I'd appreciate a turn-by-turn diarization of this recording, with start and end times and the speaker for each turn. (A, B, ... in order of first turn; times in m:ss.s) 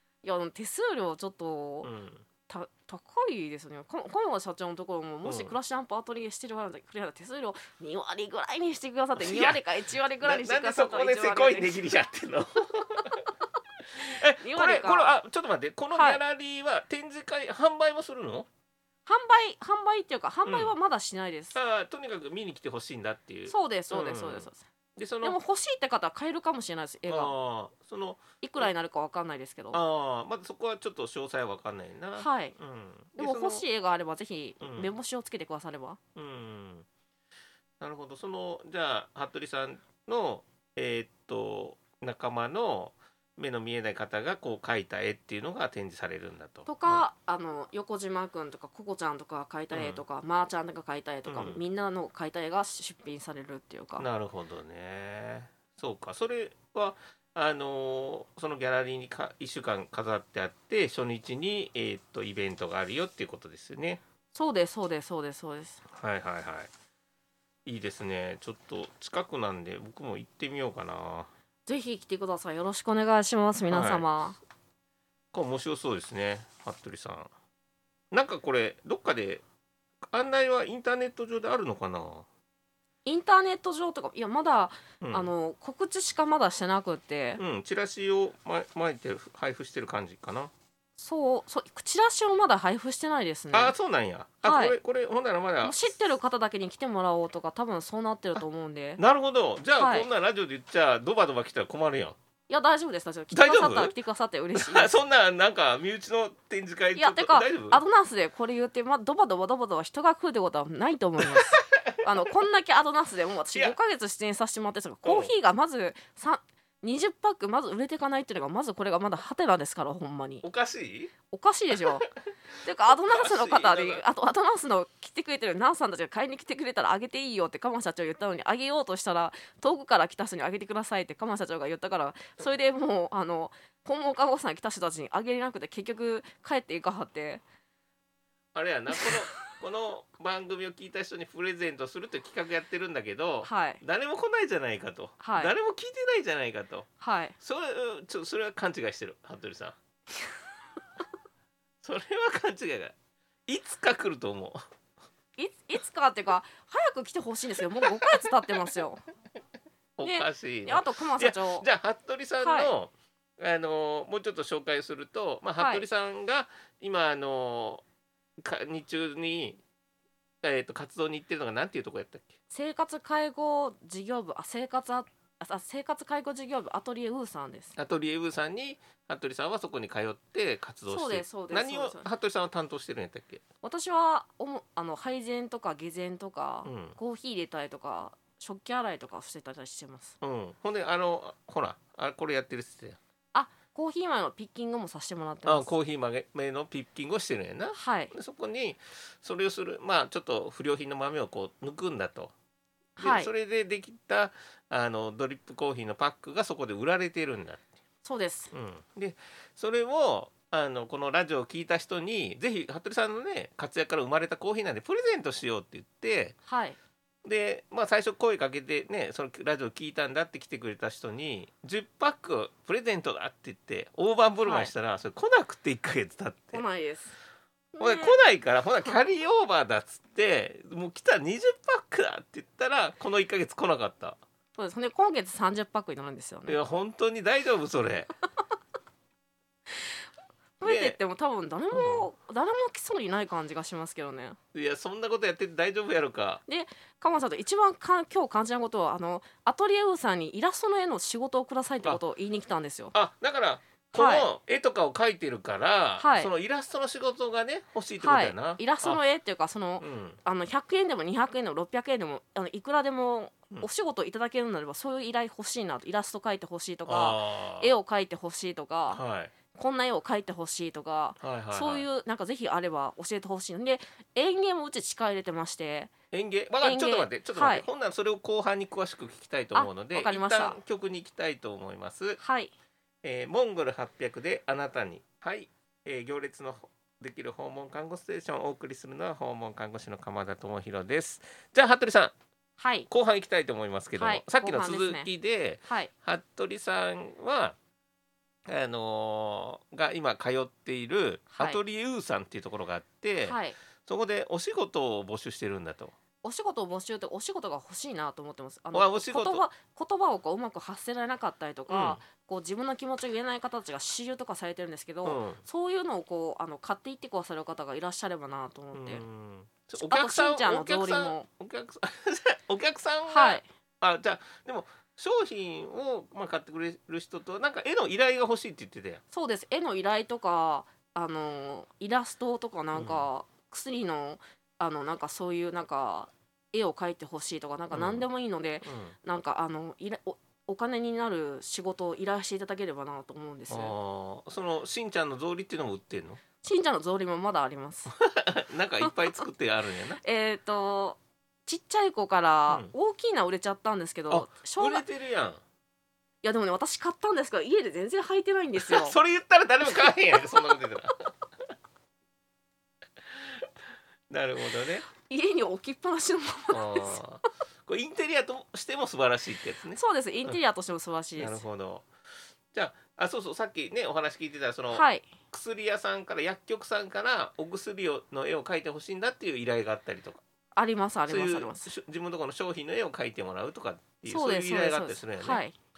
0:00.2-0:01.9 A
0:01.8-0:02.2 B
0:02.5-0:11.8 A
0:05.2-0:05.6 B
0:09.2-0:09.6 B
0:10.2-0:13.2 B
0:13.9-0:18.5 B
0:14.0-0:15.1 A
0:15.9-0:16.2 A
0:19.0-0:21.6 A
0:20.4-0:20.7 B
0:21.5-0:25.4 B
0:23.5-0:24.6 A
0:25.2-0:27.3 A
0:27.1-0:28.7 B
0:28.4-0:29.8 A
0:29.7-0:33.6 B
0:32.2-0:32.5 A
0:33.2-0:36.0 A
0:34.6-0:34.9 B
0:36.1-0:36.9 B
0:37.8-0:47.0 B
0:46.6-0:54.0 A
0:49.7-0:50.0 B
0:51.2-0:51.6 B
0:54.0-1:04.0 B
1:04.3-1:05.8 A
1:05.9-1:06.7 B
1:07.6-1:11.3 B
1:11.6-1:14.4 A
1:13.7-1:14.0 B
1:15.3-1:17.3 B
1:18.1-1:19.4 B
1:20.1-1:22.2 B
1:23.0-1:27.4 A
1:25.0-1:25.3 B
1:27.4-1:30.5 B
1:31.0-1:33.7 A
1:33.5-1:35.8 B
1:34.4-1:34.8 A
1:35.6-1:39.0 A
1:39.0-1:42.2 B
1:39.8-1:40.1 A
1:42.5-1:45.0 A
1:43.3-1:43.9 B
1:44.5-1:47.8 B
1:47.0-2:00.4 A
1:51.3-1:52.0 B
1:55.0-1:55.3 B
2:00.4-2:01.1 B
2:01.3-2:02.1 A
2:02.6-2:17.4 A
2:02.8-2:04.0 B
2:18.5-2:26.9 B
2:23.4-2:23.8 A
2:25.2-2:25.5 A
2:27.0-2:27.3 A
2:27.4-2:29.8 B
2:31.8-2:32.9 B
2:33.5-2:34.6 B
2:35.4-2:39.0 A
2:37.8-2:38.2 B
2:40.0-2:47.8 B
2:40.0-2:41.6 A
2:42.4-2:42.7 A
2:45.6-2:45.8 A
2:48.4-2:49.6 B
2:50.4-2:52.3 B
2:52.5-2:57.8 A
2:57.8-3:03.4 B
3:00.9-3:02.1 A
3:03.6-3:10.2 A
3:06.6-3:07.0 B
3:10.2-3:13.0 B
3:13.3-3:15.7 A
3:15.4-3:22.3 B
3:17.7-3:18.1 A
3:23.0-3:23.3 A
3:23.0-3:27.6 B
3:28.0-3:28.5 A
3:28.5-3:36.4 B
3:36.4-3:36.8 A
3:37.2-3:46.6 B
3:44.4-3:44.7 A
3:46.5-3:47.2 A
3:47.7-3:48.2 A
3:47.8-3:54.2 B
3:54.6-3:56.6 A
3:56.5-3:58.1 B
4:00.6-4:04.4 A
4:00.6-4:01.0 B
4:01.7-4:02.1 B
4:04.5-4:06.4 B
4:06.5-4:12.9 A
4:12.9-4:19.0 B
4:13.9-4:14.3 A
4:16.0-4:16.3 A
4:18.0-4:29.0 A
4:19.8-4:20.2 B
4:26.8-4:27.7 B
4:28.9-4:29.3 B
4:29.5-4:35.9 A
4:31.2-4:31.8 B
4:36.1-4:42.2 B
4:36.6-4:37.7 A
4:39.5-4:40.6 A
4:42.2-4:42.5 A
4:43.0-4:52.1 B
4:52.6-4:52.9 A
4:52.9-4:57.6 B
4:54.0-4:55.1 A
4:58.4-5:05.9 B
5:01.3-5:01.6 A
5:03.2-5:03.6 A
5:06.2-5:19.0 A
5:08.7-5:09.4 B
5:11.7-5:12.0 B
5:15.0-5:15.4 B
5:18.7-5:29.0 B
5:19.8-5:21.3 A
5:23.1-5:23.4 A
5:29.1-5:43.7 A
5:32.7-5:33.1 B
5:37.7-5:38.0 B
5:38.6-5:39.0 B
5:43.5-5:46.2 B
5:46.4-5:47.9 A
5:47.9-5:50.0 B
5:50.0-5:54.8 A
5:54.1-5:55.4 B
5:56.2-5:59.0 A
5:58.6-6:01.1 B
6:03.1-6:03.5 B
6:04.1-6:04.8 B
6:05.0-6:07.0 A
6:06.5-6:10.3 B
6:09.7-6:11.4 A
6:11.2-6:11.9 B
6:12.5-6:20.2 B
6:14.7-6:15.1 A
6:20.5-6:21.7 A
6:21.1-6:25.4 B
6:24.0-6:25.5 A